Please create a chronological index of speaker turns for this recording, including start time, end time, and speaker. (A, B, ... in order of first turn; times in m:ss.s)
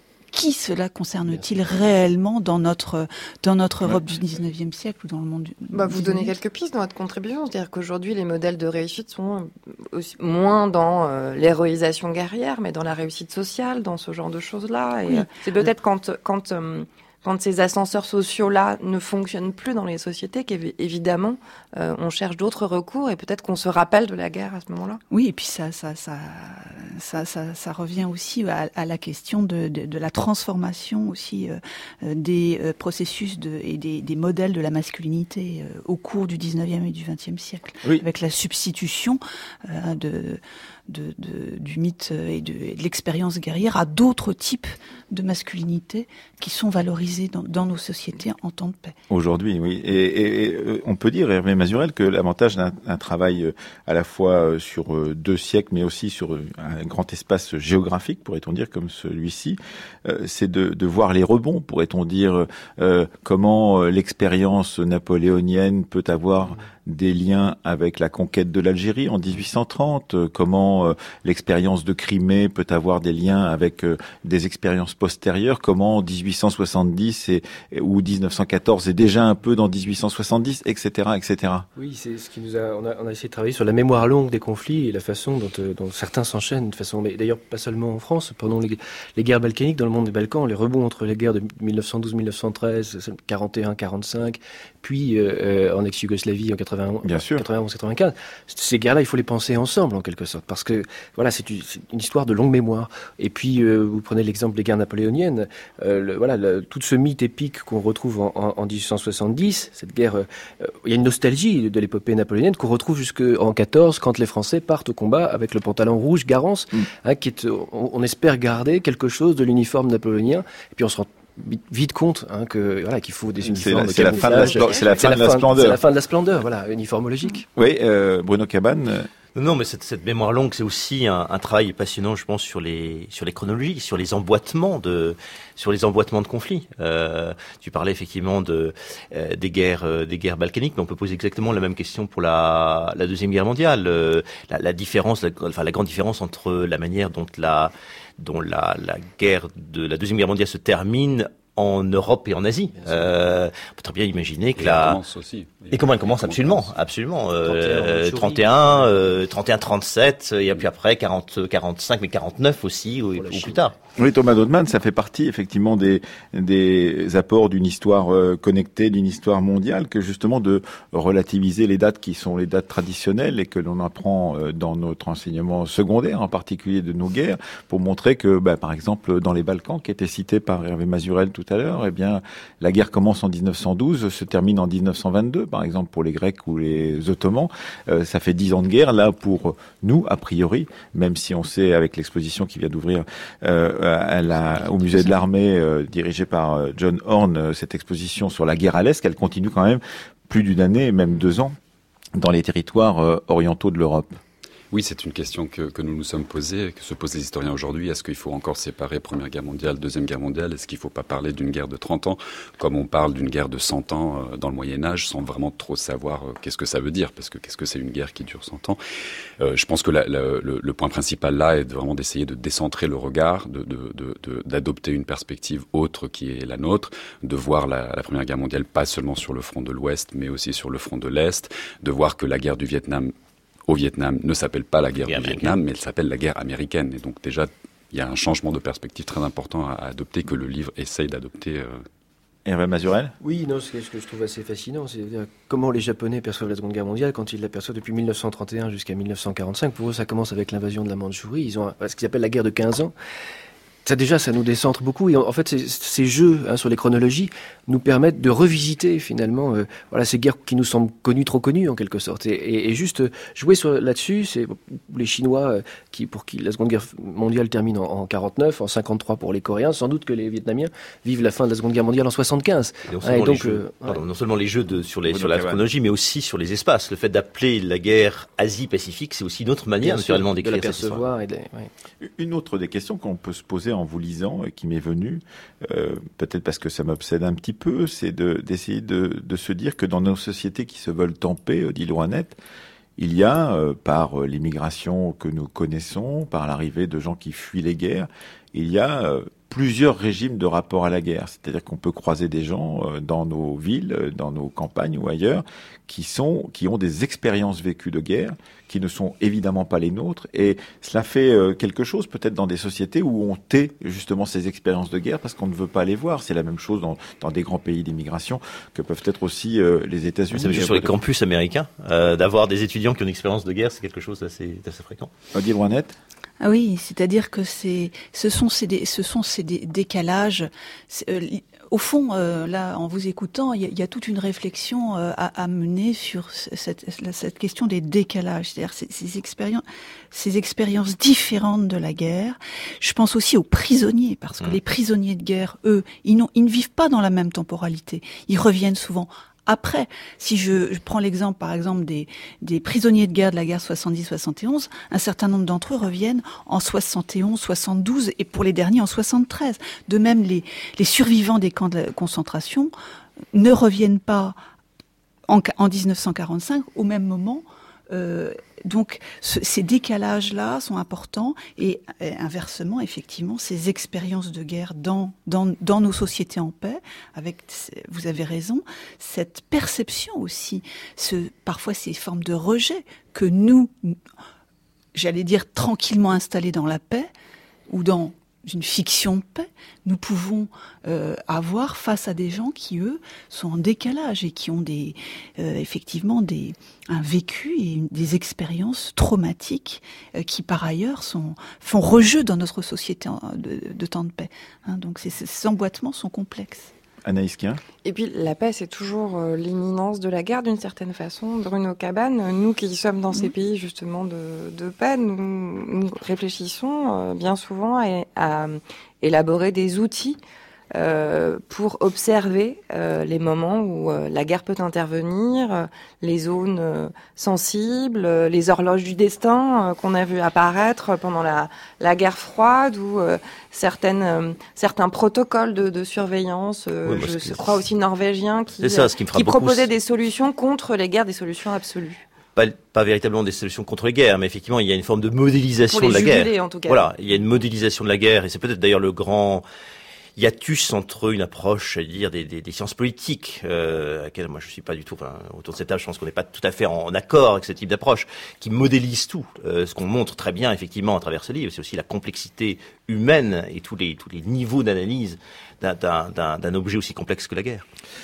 0:00.3-0:06.3 A
0:05.7-0:25.0 B
0:25.1-0:49.0 A
0:49.1-1:21.7 C
1:21.8-2:07.5 D
1:37.0-1:37.4 C
2:03.4-2:05.8 C
2:03.9-2:05.0 B
2:07.6-2:09.1 C
2:09.4-2:35.0 E
2:32.7-2:33.2 D
2:34.6-2:36.8 F
2:35.7-2:43.7 E
2:37.4-2:39.2 D
2:43.2-2:43.7 D
2:44.0-3:21.6 C
3:14.5-3:15.2 D
3:22.2-3:24.2 C
3:24.7-3:38.8 F
3:39.4-3:53.1 F
3:53.7-4:01.8 F
3:55.0-3:55.6 E
4:02.5-4:03.1 C
4:03.2-4:12.9 D
4:13.8-4:34.0 D
4:32.9-4:41.1 E
4:35.1-4:35.6 C
4:39.8-4:41.7 D
4:42.0-4:52.4 C
4:53.0-5:21.0 C
5:20.3-5:25.1 E
5:25.3-5:26.0 C
5:26.4-6:02.7 A
6:03.3-6:04.4 A
6:05.3-6:24.0 A
6:25.0-6:27.1 A
6:27.7-6:46.7 A
6:47.0-6:47.6 C
6:47.8-7:00.2 B
7:00.8-7:22.0 B
7:16.9-7:17.5 E
7:18.6-7:19.7 E
7:22.4-7:29.4 E
7:25.7-7:26.9 B
7:30.2-7:47.6 E